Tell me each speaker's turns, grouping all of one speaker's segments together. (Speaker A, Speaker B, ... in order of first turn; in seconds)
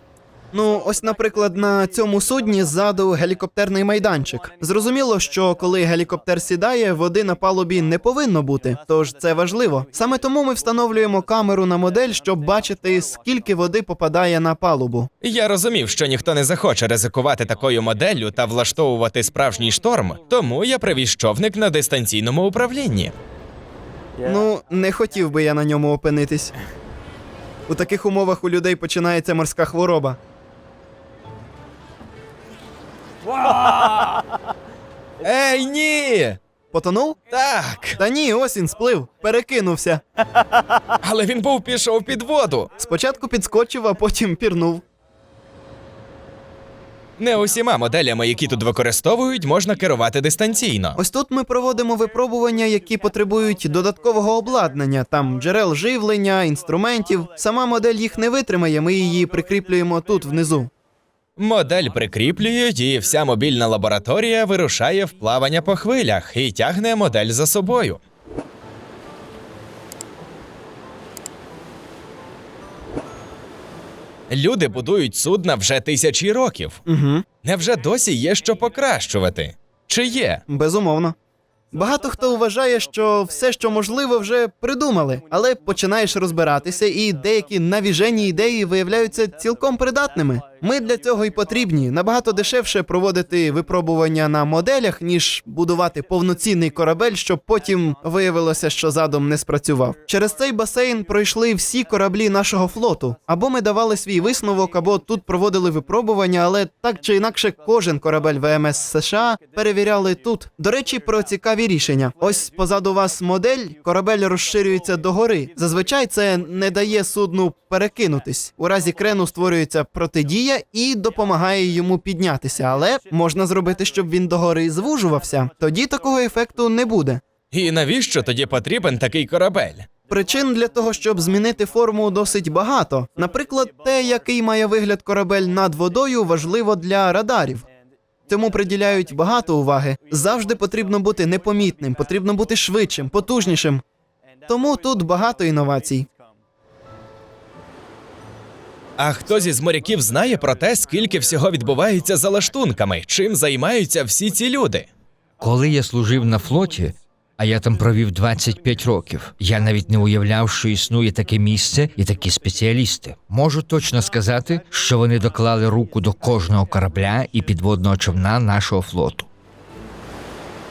Speaker A: 0.5-15.1, 24.2-26.5, 27.7-30.2, 36.7-37.2, 38.0-40.0, 42.8-44.8, 51.0-60.7, 76.8-77.2, 80.5-81.1, 81.7-127.2, 130.1-137.6, 138.3-143.8, 144.5-146.1
Speaker B: 15.2-23.1, 35.2-36.4, 37.3-38.0, 41.0-42.7, 47.2-51.0, 61.4-68.0, 74.3-76.8, 77.4-80.4, 127.5-129.9, 149.0-154.9
Speaker C: 155.4-169.3